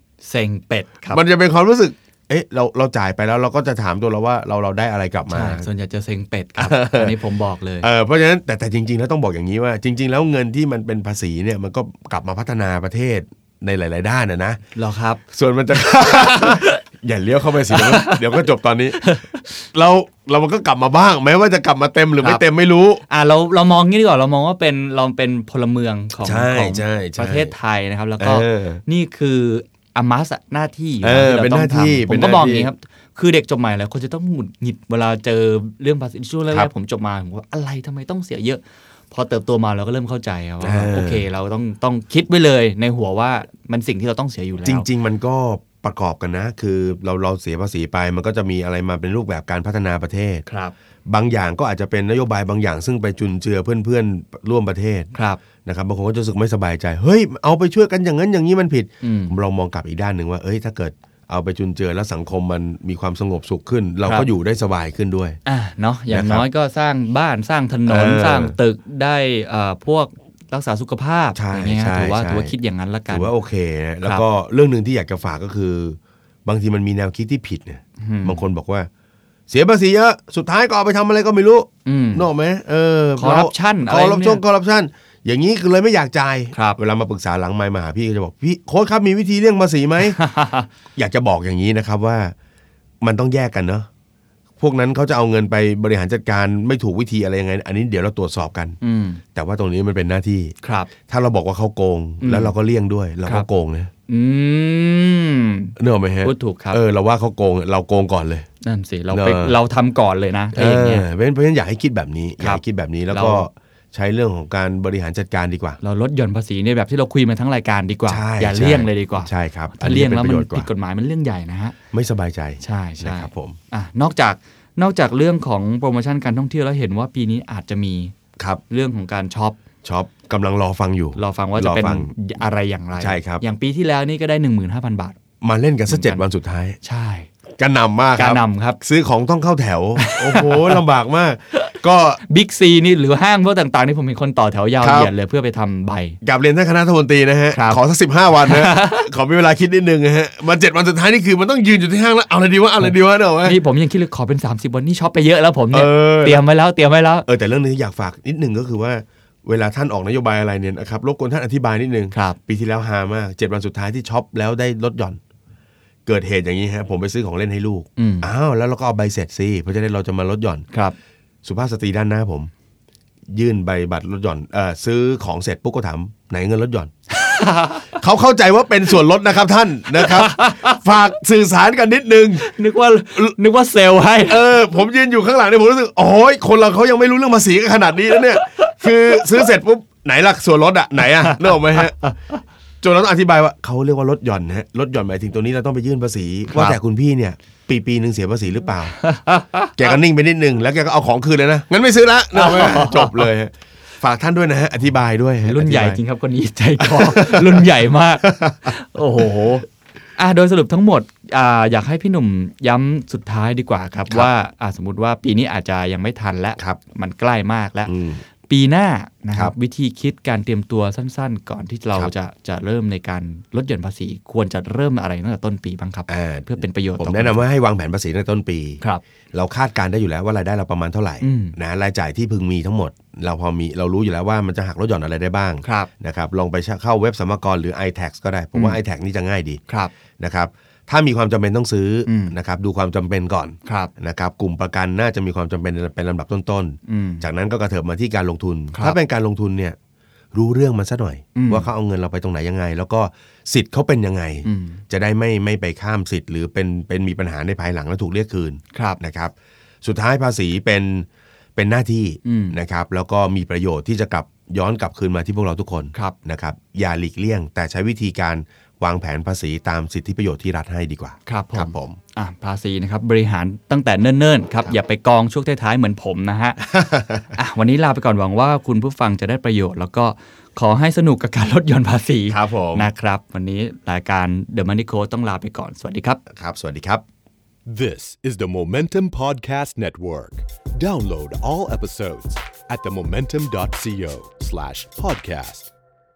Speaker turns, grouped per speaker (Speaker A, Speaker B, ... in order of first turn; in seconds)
Speaker A: 0.2-1.2, 5.3-7.9, 14.8-15.2, 15.9-16.8, 17.7-18.4, 19.0-19.5, 23.1-44.9, 50.5-50.7, 55.1-55.4, 59.0-59.4, 65.5-73.3, 78.0-78.4, 81.8-82.3, 83.2-84.4, 86.5-86.8, 90.0-90.7, 98.8-99.2, 100.6-100.9, 102.2-102.5, 104.1-106.8, 108.6-111.1, 112.4-113.5, 115.8-121.8, 122.6-128.1, 128.7-129.6, 131.2-135.2, 135.9-136.2, 136.8-137.3, 138.2-138.8, 140.0-140.8, 142.3-146.2, 147.5-147.8, 148.4-149.1, 152.8-157.3, 162.1-162.4, 168.0-168.3, 177.1-178.0, 179.9-180.8, 182.4-184.4, 188.4-189.4, 191.3-192.2, 196.5-196.8, 199.0-199.8, 202.3-203.3, 205.5-209.7, 210.2-217.9, 218.5-227.4, 231.2-231.6, 235.6-235.9, 242.1-242.3, 243.7-243.9, 246.9-247.2, 251.3-251.7, 254.4-254.8, 258.7-259.0, 262.2-262.6, 271.3-276.7, 277.3-286.2
Speaker B: 1.1-5.7, 6.6-7.2, 7.8-14.6, 15.3-19.2, 19.7-23.0, 26.2-27.5, 28.2-28.8, 31.0-32.7, 40.6-41.3, 44.6-50.5, 51.1-55.1, 55.6-65.4, 66.1-66.5, 67.9-68.6, 71.3-72.5, 73.1-78.9, 79.5-90.2, 91.0-92.3, 93.0-93.9, 94.6-98.8, 99.3-100.5, 101.1-103.9, 105.8-108.5, 109.1-109.6, 110.5-115.8, 118.1-120.7, 121.9-123.6, 129.8-132.1, 133.0-133.4, 135.4-136.8, 137.6-142.2, 144.8-145.1, 146.2-153.6, 155.7-156.4, 157.3-165.2, 166.1-170.7, 171.4-172.5, 173.3-176.9, 177.9-182.4, 184.3-192.0, 192.8-198.9, 199.8-206.0, 206.8-207.7, 208.2-208.7, 217.9-218.2, 226.1-228.8, 229.3-239.6, 240.2-249.8, 250.3-272.0, 276.6-277.3, 282.3-282.9, 286.3-287.0
Speaker C: 287.7-295.7